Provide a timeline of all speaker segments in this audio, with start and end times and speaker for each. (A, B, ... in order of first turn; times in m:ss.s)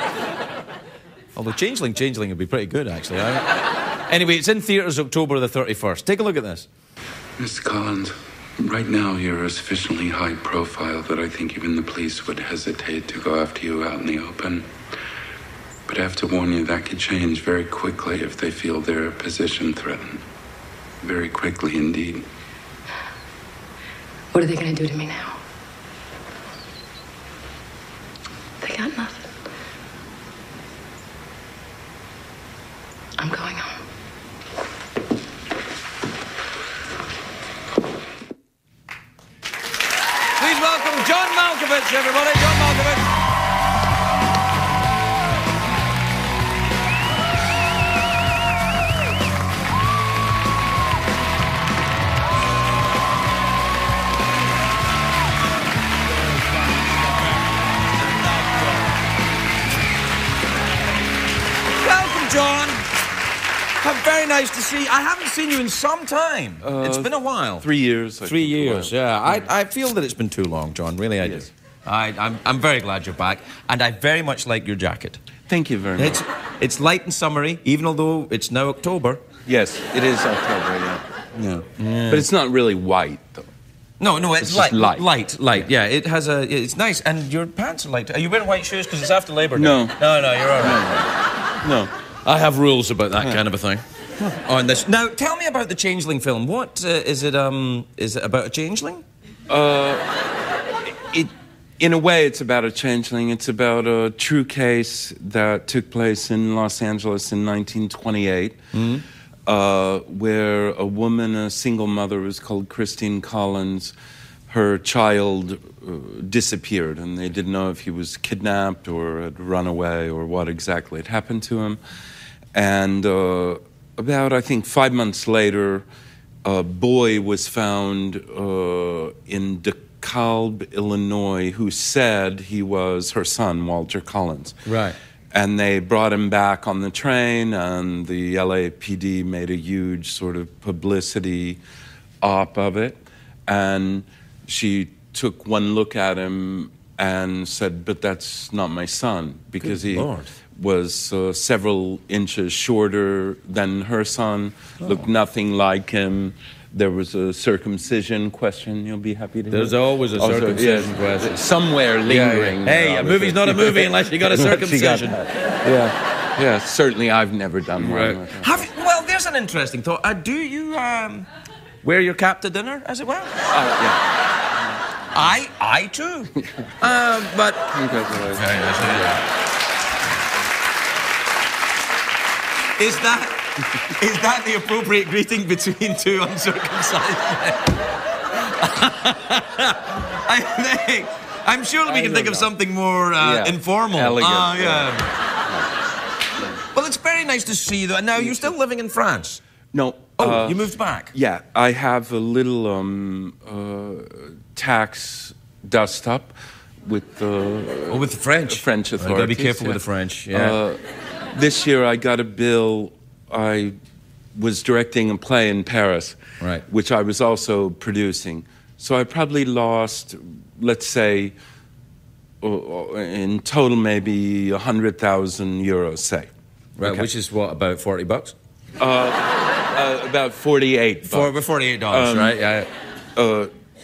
0:01.4-0:06.7 A
0:07.4-0:14.7 B
0:15.9-0:20.2 B
0:21.0-0:22.3 B
0:24.3-0:25.4 C
0:28.6-0:29.3 C
0:33.2-0:33.8 C
0:40.4-0:43.1 A
0:58.0-0:58.8 A
1:01.7-1:02.9 A
1:03.8-1:07.7 A
1:06.6-1:09.5 D
1:08.2-1:15.2 A
1:11.2-1:11.5 D
1:15.5-1:16.2 D
1:16.0-1:19.2 A
1:19.5-1:23.5 D
1:21.8-1:22.3 A
1:24.0-1:30.9 A
1:24.4-1:25.7 D
1:29.6-1:31.1 D
1:31.6-1:31.9 D
1:32.2-1:33.8 A
1:34.4-1:39.0 A
1:39.5-1:40.1 D
1:41.1-1:48.6 D
1:48.7-1:49.0 A
1:49.5-1:53.9 D
1:54.5-2:01.8 D
2:02.5-2:05.9 D
2:06.4-2:14.6 D
2:14.7-2:15.0 A
2:15.3-2:21.6 D
2:22.2-2:48.6 D
2:29.6-2:30.3 A
2:34.8-2:35.1 A
2:39.5-2:41.4 A
2:42.1-2:45.3 A
2:47.8-2:51.3 A
2:51.8-2:53.4 A
2:53.5-2:54.0 D
2:55.1-2:57.7 A
2:57.7-2:59.2 D
2:58.3-2:59.2 A
3:02.8-3:03.4 A
3:04.0-3:07.8 A
3:08.4-3:15.1 A
3:11.8-3:12.5 D
3:13.2-3:15.7 D
3:16.7-3:19.4 A
3:18.2-3:18.5 D
3:19.7-3:30.8 D
3:20.2-3:21.1 A
3:27.9-3:30.6 A
3:31.4-3:33.8 D
3:34.4-3:41.4 D
3:36.4-3:36.6 A
3:42.4-3:47.1 D
3:46.8-3:48.4 A
3:48.8-3:51.4 D
3:51.0-3:52.7 A
3:51.9-3:52.4 D
3:53.2-3:53.5 D